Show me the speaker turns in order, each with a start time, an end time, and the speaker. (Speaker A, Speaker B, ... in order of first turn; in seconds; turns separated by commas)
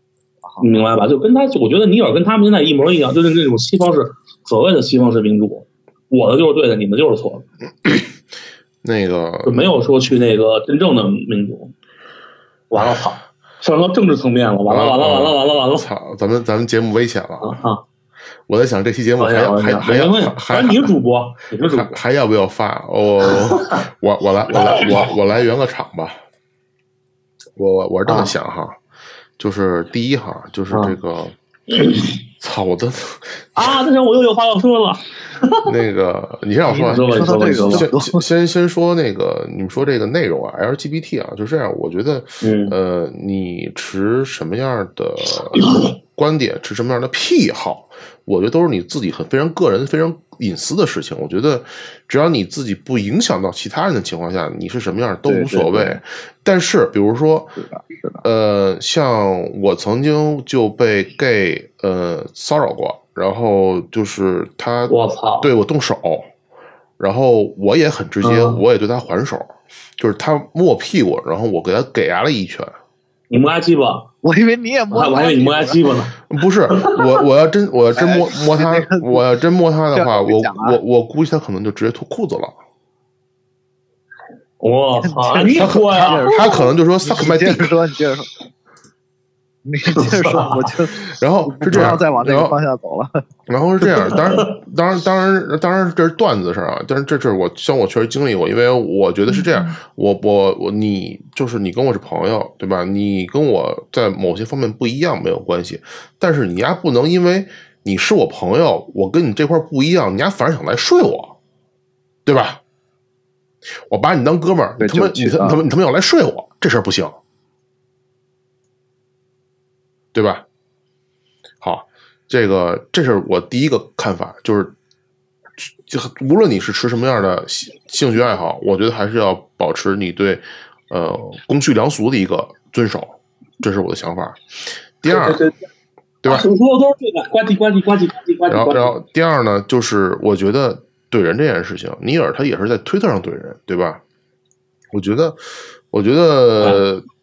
Speaker A: 0.5-0.8, Speaker B: 0.6-7.5, Speaker C: 8.8-9.8, Speaker B: 9.4-11.7, Speaker B: 12.7-15.9, Speaker C: 14.7-17.6, Speaker B: 17.4-17.8, Speaker C: 18.5-20.9, Speaker B: 19.2-22.0, Speaker C: 21.7-26.2, Speaker B: 24.5-25.1, Speaker C: 27.6-28.8, Speaker C: 29.4-31.4, Speaker B: 30.7-31.0, Speaker B: 31.7-32.1, Speaker C: 32.4-33.6, Speaker B: 33.5-35.7, Speaker C: 35.7-57.6, Speaker A: 36.7-38.2, Speaker B: 36.7-37.9, Speaker B: 42.4-42.8, Speaker A: 55.2-56.0, Speaker A: 57.6-58.2, Speaker C: 58.2-66.3, Speaker B: 64.9-65.5, Speaker C: 67.0-72.7, Speaker B: 68.2-68.6, Speaker B: 73.3-74.1, Speaker A: 74.2-75.8, Speaker B: 74.9-76.2, Speaker C: 76.3-82.6, Speaker B: 76.7-77.0, Speaker A: 78.0-79.3, Speaker A: 79.9-80.8, Speaker B: 84.6-86.5, Speaker A: 85.0-88.3, Speaker C: 85.6-87.7, Speaker A: 89.7-93.2, Speaker B: 89.9-90.7, Speaker C: 91.0-92.6, Speaker C: 93.5-111.3, Speaker B: 94.0-94.6, Speaker A: 99.3-99.7, Speaker C: 112.3-112.6, Speaker C: 113.9-117.2, Speaker A: 114.8-115.6, Speaker C: 120.1-120.5, Speaker C: 121.6-124.8, Speaker C: 125.6-134.4, Speaker C: 135.0-135.4, Speaker B: 135.1-135.6, Speaker C: 136.2-136.5, Speaker B: 136.3-139.0, Speaker C: 138.5-144.0, Speaker C: 144.9-145.4, Speaker C: 145.9-147.0